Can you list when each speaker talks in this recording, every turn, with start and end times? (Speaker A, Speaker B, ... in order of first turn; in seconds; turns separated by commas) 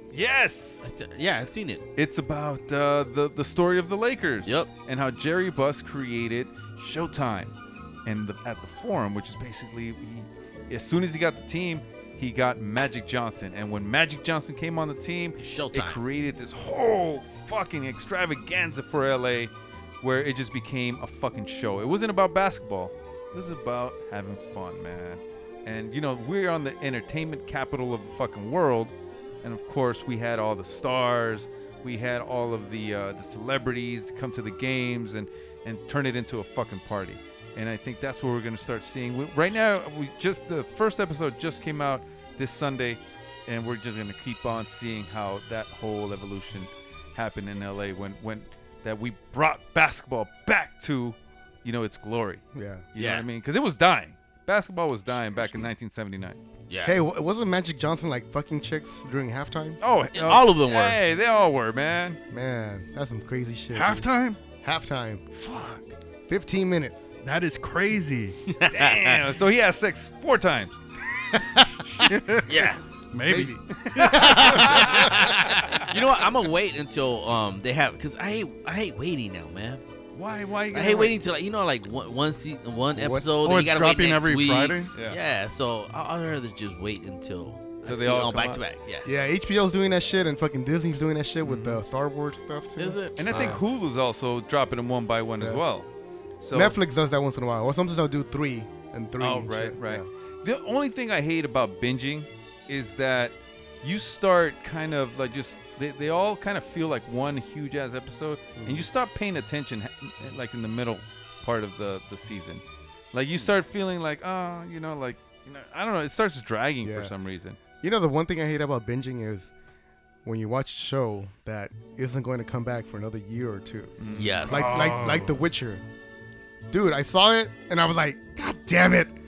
Speaker A: 0.1-0.9, Speaker B: 0.8-1.8, Speaker A: 2.0-56.4, Speaker B: 4.4-4.7, Speaker B: 15.4-16.0, Speaker C: 52.5-52.8, Speaker B: 53.0-53.2, Speaker B: 56.7-57.0, Speaker C: 56.8-59.8, Speaker A: 59.8-62.2, Speaker B: 60.1-61.0, Speaker C: 62.3-64.1, Speaker D: 63.7-64.4, Speaker C: 64.6-65.2, Speaker D: 65.3-65.8, Speaker C: 66.3-67.1, Speaker D: 67.2-68.4, Speaker B: 68.5-69.2, Speaker A: 68.7-70.8, Speaker C: 71.3-71.6, Speaker D: 71.5-75.3, Speaker B: 72.5-72.8, Speaker C: 73.2-75.3, Speaker A: 74.1-75.1, Speaker B: 75.9-79.8, Speaker A: 80.1-81.2, Speaker B: 80.7-89.1, Speaker C: 83.0-83.2, Speaker D: 83.3-84.9, Speaker A: 87.8-88.6, Speaker C: 89.0-93.6, Speaker A: 91.4-91.8, Speaker B: 92.8-93.6, Speaker A: 93.2-95.9, Speaker A: 96.4-96.8, Speaker C: 96.5-100.1, Speaker A: 99.2-117.6, Speaker C: 108.5-108.9, Speaker C: 116.8-117.1, Speaker C: 117.7-119.5, Speaker C: 120.2-123.9, Speaker A: 124.0-125.1, Speaker B: 124.1-124.7, Speaker C: 124.5-125.8, Speaker D: 124.6-125.4, Speaker C: 126.7-129.2